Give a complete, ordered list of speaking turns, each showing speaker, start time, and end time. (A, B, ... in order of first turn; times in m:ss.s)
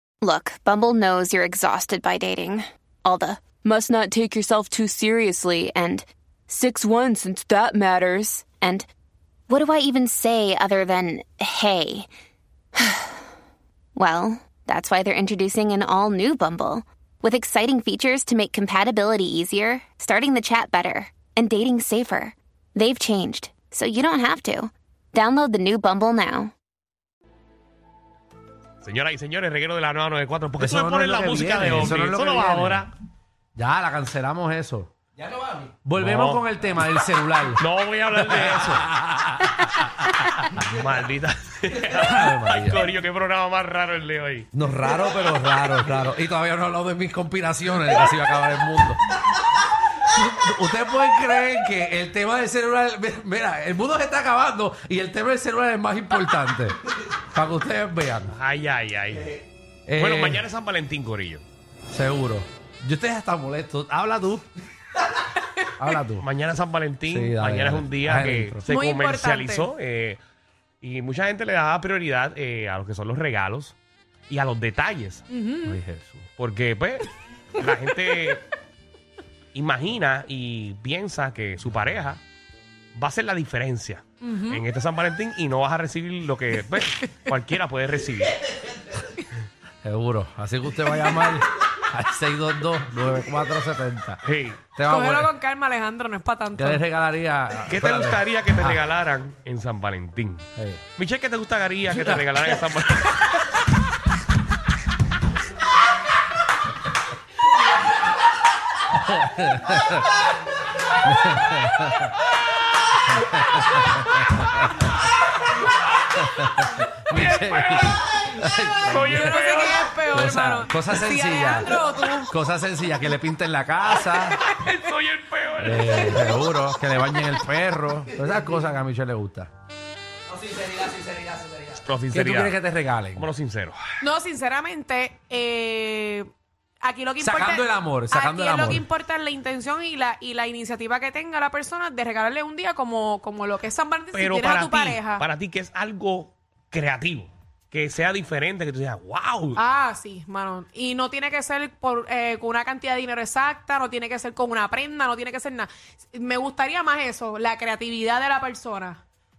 0:00.2-0:08.9 A
0:09.5-0:12.1 A
0:12.8-0:13.2 A
0:14.0-0:26.5 A
0:28.8-0:32.9 B
0:30.6-0:32.9 C
0:33.6-0:34.9 C
0:35.8-0:37.6 C
0:36.0-0:36.4 B
0:37.6-0:38.9 B
0:38.2-0:40.6 C
0:40.5-0:44.5 B
0:42.0-0:42.8 C
0:44.5-0:49.0 C
0:50.0-0:58.3 C
0:58.3-0:59.4 B
0:59.9-1:00.4 C
1:00.0-1:01.4 B
1:01.9-1:04.5 C
1:05.8-1:06.3 C
1:06.2-1:10.2 B
1:07.1-1:08.6 C
1:08.7-1:09.7 D
1:10.8-1:13.8 B
1:14.3-1:15.2 B
1:15.3-1:15.8 D
1:15.6-1:16.3 C
1:16.4-1:18.4 B
1:19.5-1:22.2 B
1:23.0-1:28.3 B
1:24.2-1:24.6 D
1:29.8-1:34.2 C
1:34.2-1:34.6 B
1:34.8-1:35.3 C
1:34.8-1:36.8 D
1:36.6-1:38.8 C
1:37.7-1:43.4 B
1:40.6-1:40.8 C
1:41.9-1:42.6 C
1:48.9-1:50.1 C
1:51.0-1:52.1 C
1:53.2-1:54.6 C
1:56.2-1:59.5 C
1:57.1-1:58.1 B
1:58.8-2:00.0 B
1:59.1-2:02.3 D
2:00.1-2:01.8 C
2:02.3-2:04.4 C
2:04.0-2:06.4 B
2:05.6-2:09.5 C
2:10.7-2:11.0 C
2:11.9-2:12.6 B
2:12.1-2:13.3 C
2:13.2-2:13.8 B
2:14.0-2:16.3 D
2:16.8-2:25.2 D
2:17.2-2:18.8 C
2:24.1-2:29.6 B
2:29.6-2:39.0 D